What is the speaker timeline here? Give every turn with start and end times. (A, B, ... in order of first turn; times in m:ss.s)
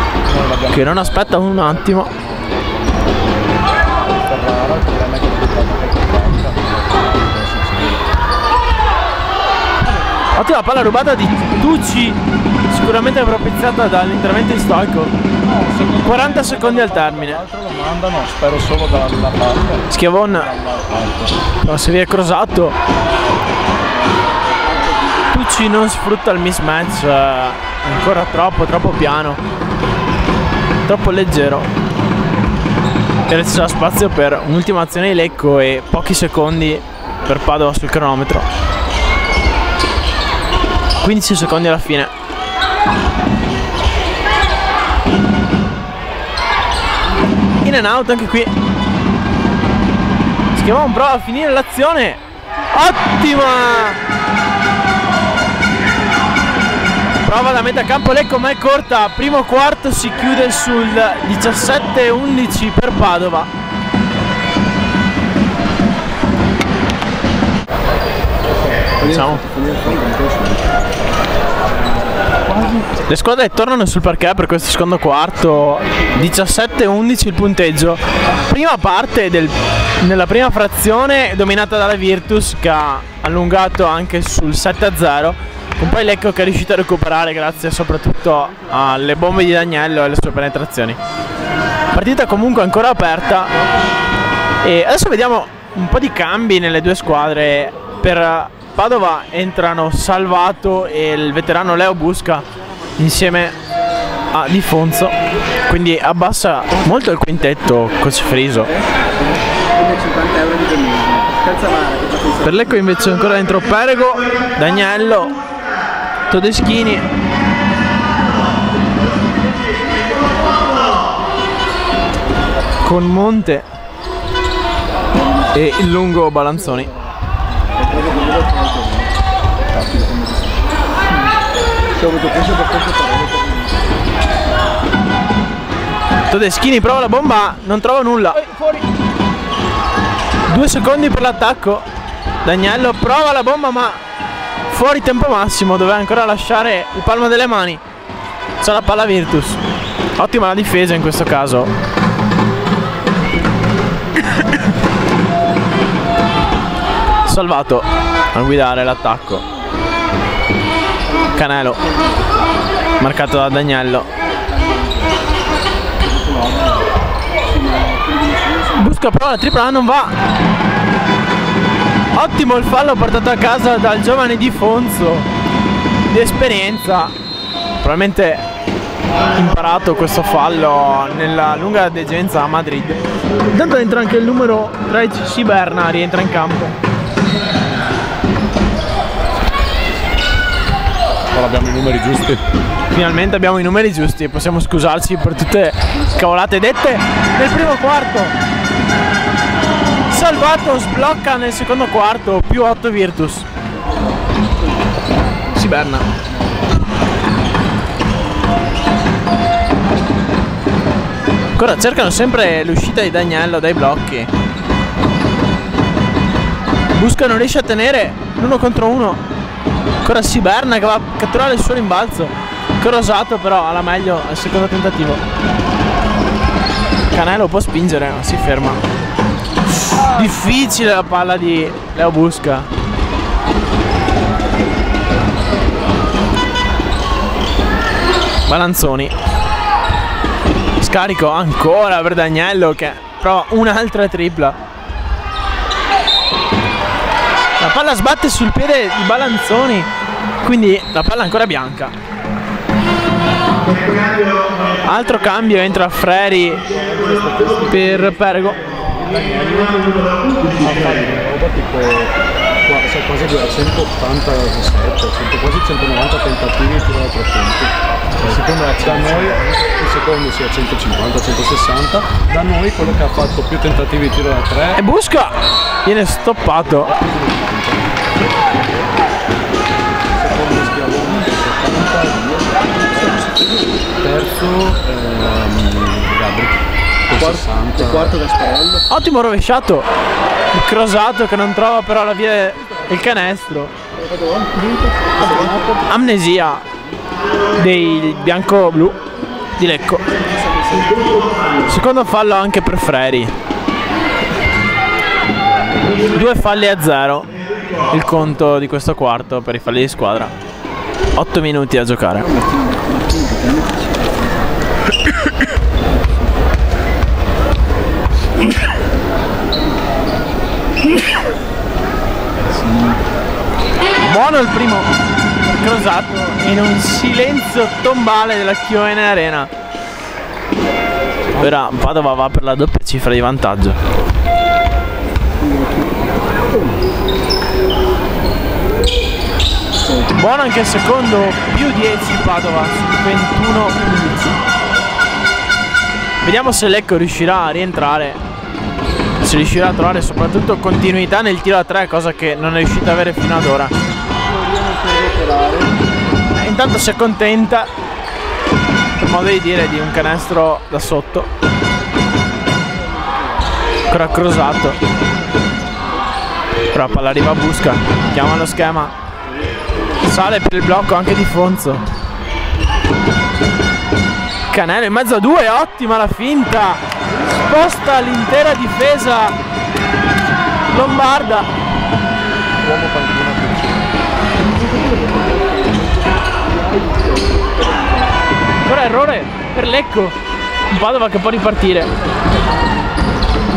0:00.2-0:08.1 A
0:00.7-0:02.1 B
0:10.3-0:12.2 B
0:12.7-0:15.1 B
0:15.4-0:21.4 A
0:16.0-0:17.4 B
0:19.9-0:20.5 B
0:21.6-0:22.8 B
0:25.3-0:29.4 B
0:30.8-0:31.7 B
0:33.3-0:38.5 B
0:41.0-0:42.1 B
0:47.6-0:48.5 B
0:50.5-0:52.2 B
0:52.7-0:54.0 B
0:57.2-1:03.5 B
1:09.0-1:09.4 B
1:09.2-1:10.6 A
1:13.0-1:31.0 B
1:31.9-1:33.5 B
1:34.6-1:42.5 B
1:43.0-1:43.6 B
1:44.3-1:45.1 B
1:45.7-1:48.7 B
1:49.7-1:52.6 C
1:52.4-1:55.4 B
1:56.3-1:57.0 B
2:02.8-2:03.7 B
2:05.5-2:06.9 B
2:07.8-2:09.1 C
2:09.8-2:10.4 C
2:12.0-2:13.5 C
2:16.3-2:18.8 B
2:20.5-2:21.9 B
2:22.4-2:24.0 B
2:24.7-2:27.8 B
2:28.6-2:29.6 B
2:30.2-2:31.7 B
2:37.2-2:39.4 B
2:41.3-2:41.8 B
2:41.8-2:42.1 C
2:43.0-2:44.1 B
2:44.2-2:45.1 C
2:47.5-2:48.9 C
2:48.7-2:50.2 B
2:52.1-2:55.3 B
2:56.1-2:57.1 B
2:57.8-2:58.4 B
2:59.3-3:06.7 B
3:11.3-3:12.4 A
3:12.9-3:18.3 B
3:20.1-3:23.4 B
3:25.5-3:26.1 B
3:31.6-3:34.3 B
3:36.9-3:39.2 B
3:40.0-3:45.2 B
3:47.1-3:48.8 B
3:50.0-3:52.7 B
3:58.5-3:59.1 B
4:00.8-4:04.6 B
4:07.6-4:09.9 B
4:10.4-4:11.9 B
4:14.8-4:16.7 B
4:16.7-4:34.8 A
4:17.7-4:18.6 B
4:34.7-4:36.9 B
4:36.8-4:38.0 A
4:40.1-4:43.2 A
4:43.1-4:43.4 C
4:44.0-4:48.1 A
4:47.2-4:48.8 C
4:48.9-4:49.9 B
4:50.5-4:53.7 B
4:54.0-4:55.8 C
4:55.8-4:56.6 B
4:57.5-4:59.0 B
4:59.6-5:00.0 B
5:00.1-5:01.2 C
5:01.6-5:03.3 B
5:06.0-5:07.3 B
5:07.9-5:10.3 B
5:11.2-5:12.3 B
5:12.3-5:14.2 C
5:24.0-5:24.9 B
5:25.5-5:29.5 B
5:31.4-5:33.8 B
5:35.4-5:35.9 C
5:40.1-5:44.4 B
5:46.2-5:48.2 B
5:49.2-5:53.7 B
5:54.3-5:55.7 C
5:56.4-5:57.7 B
5:59.0-6:01.3 B
6:02.7-6:03.2 C
6:03.9-6:04.8 B
6:06.7-6:08.9 B
6:10.0-6:11.8 B
6:14.5-6:16.8 B
6:17.4-6:19.4 B
6:20.7-6:21.5 B
6:22.6-6:23.9 A
6:25.1-6:25.7 C
6:26.8-6:28.1 C
6:28.6-6:30.2 B
6:30.7-6:31.9 B